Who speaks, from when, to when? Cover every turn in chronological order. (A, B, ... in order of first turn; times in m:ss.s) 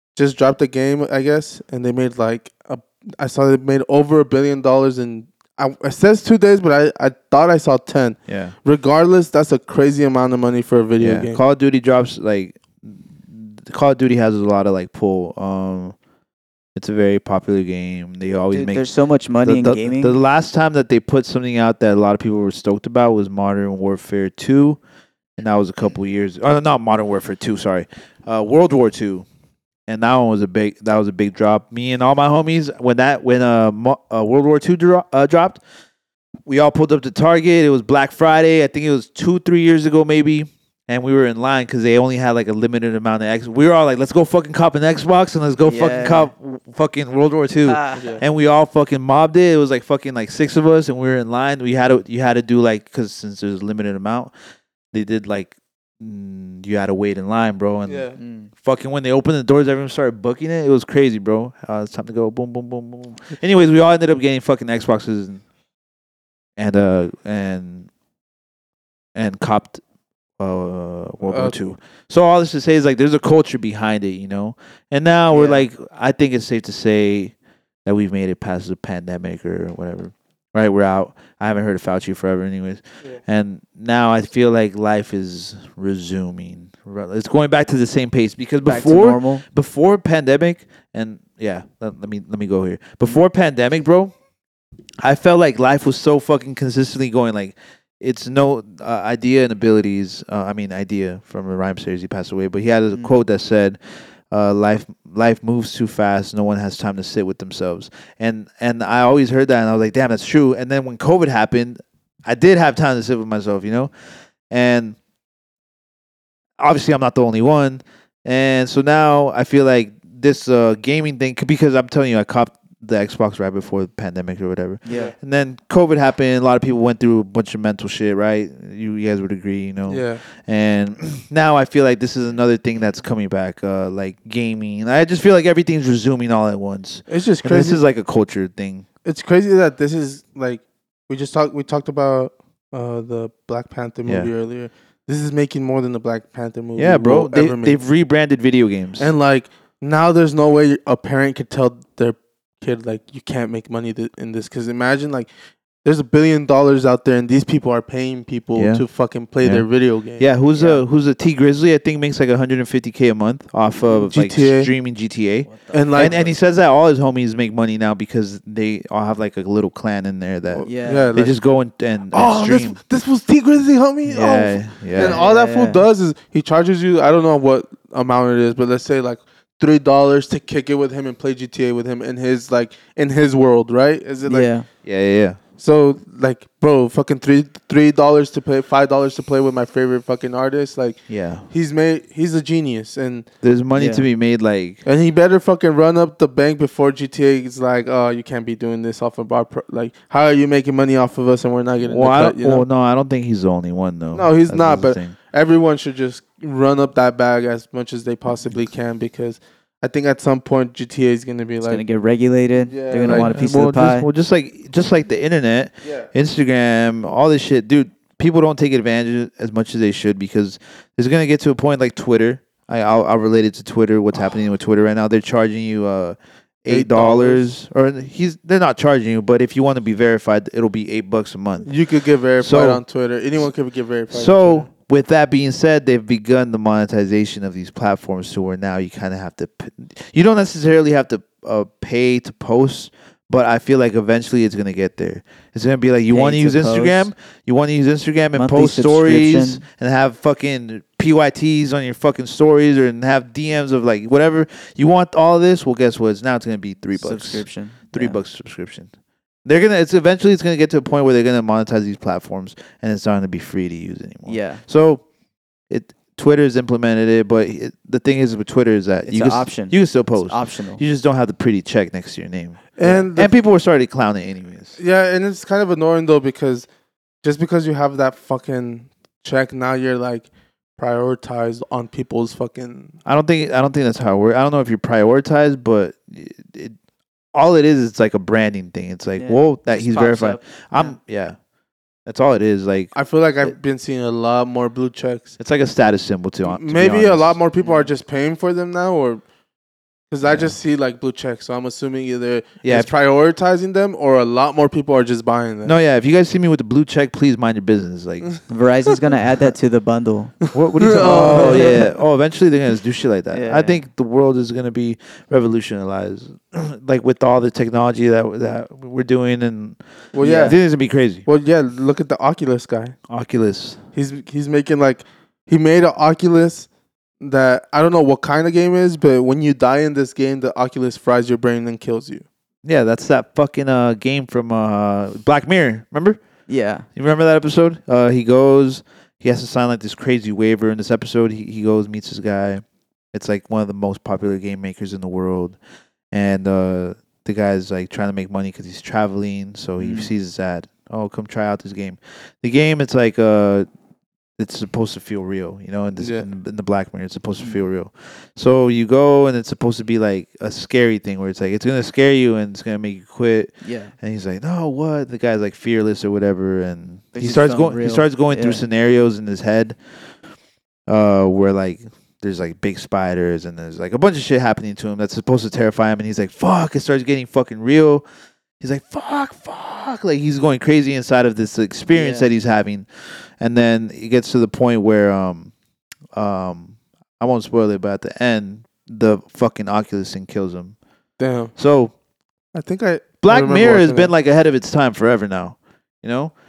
0:00.2-0:11.4 A
0:08.3-0:08.5 B
0:11.0-0:15.9 B
0:16.8-0:18.9 B
0:18.5-0:20.2 C
0:19.4-0:24.8 B
0:25.4-0:29.2 B
0:29.9-0:35.6 B
0:36.4-0:54.3 B
0:45.6-0:46.3 C
0:47.6-0:48.1 C
0:54.9-1:05.4 B
0:57.9-0:58.2 A
0:58.2-0:58.5 C
1:06.6-1:07.9 B
1:09.1-1:09.8 B
1:10.4-1:17.3 B
1:11.3-1:11.6 A
1:17.8-1:34.1 B
1:28.6-1:29.4 C
1:35.0-1:43.8 B
1:44.3-1:53.9 B
1:54.5-1:55.0 B
1:56.6-2:18.8 B
2:04.8-2:05.1 C
2:04.9-2:05.1 A
2:09.9-2:10.2 A
2:17.1-2:17.8 A
2:19.0-2:27.8 A
2:26.8-2:29.1 B
2:29.0-2:35.3 A
2:35.8-2:40.2 A
2:38.5-2:38.8 B
2:39.4-2:39.7 B
2:40.2-2:52.8 B
2:40.5-2:40.8 C
2:43.9-2:44.7 A
2:45.4-2:46.3 C
2:45.7-2:46.1 A
2:50.5-2:51.3 A
2:50.6-2:51.1 C
2:52.1-3:04.5 A
2:54.1-2:55.2 B
2:55.0-2:55.8 C
3:04.2-3:04.6 C
3:04.8-3:05.4 B
3:05.6-3:13.3 A
3:11.1-3:11.5 B
3:13.4-3:14.8 B
3:13.7-3:14.0 C
3:14.8-3:22.6 A
3:21.8-3:25.1 B
3:24.1-3:31.8 A
3:31.6-3:34.0 C
3:32.7-3:33.3 A
3:33.0-3:51.7 B
3:35.8-3:36.1 A
3:46.7-3:47.5 A
3:51.6-3:54.7 A
3:52.4-3:52.8 B
3:54.1-4:18.9 B
4:06.1-4:07.1 C
4:08.3-4:09.6 C
4:17.0-4:18.2 C
4:19.4-4:25.0 B
4:24.2-4:24.6 C
4:25.7-4:34.8 B
4:29.1-4:30.8 C
4:32.8-4:33.3 A
4:34.8-4:36.7 A
4:37.2-4:42.9 A
4:43.0-4:46.8 B
4:47.3-4:51.4 B
4:49.2-4:51.0 C
4:52.0-4:52.9 B
4:52.9-4:55.3 A
4:55.4-4:57.4 B
4:56.4-4:59.2 A
4:57.6-4:57.9 C
5:00.1-5:05.7 A
5:00.3-5:00.5 B
5:02.6-5:02.9 B
5:05.6-5:08.4 B
5:08.5-5:10.4 C
5:10.5-5:19.8 B
5:10.8-5:11.9 A
5:11.0-5:11.9 C
5:13.3-5:13.8 C
5:20.1-5:20.6 A
5:20.2-5:20.6 C
5:20.3-5:21.2 B
5:21.2-5:23.0 A
5:23.1-5:23.8 B
5:23.9-5:26.7 A
5:27.2-5:32.2 A
5:32.6-5:36.2 B
5:36.5-5:36.8 C
5:36.9-5:45.6 B
5:46.1-5:53.7 B
5:49.8-5:50.1 C
5:54.4-6:09.8 B
5:56.0-5:56.3 A
6:03.6-6:03.9 C
6:07.1-6:08.6 C
6:10.9-6:18.0 B
6:18.6-6:22.9 B
6:21.9-6:22.3 C
6:23.4-6:25.5 B
6:26.1-6:30.7 B
6:31.2-6:31.5 A
6:31.6-6:31.9 B
6:32.5-6:34.1 A
6:33.2-6:36.3 B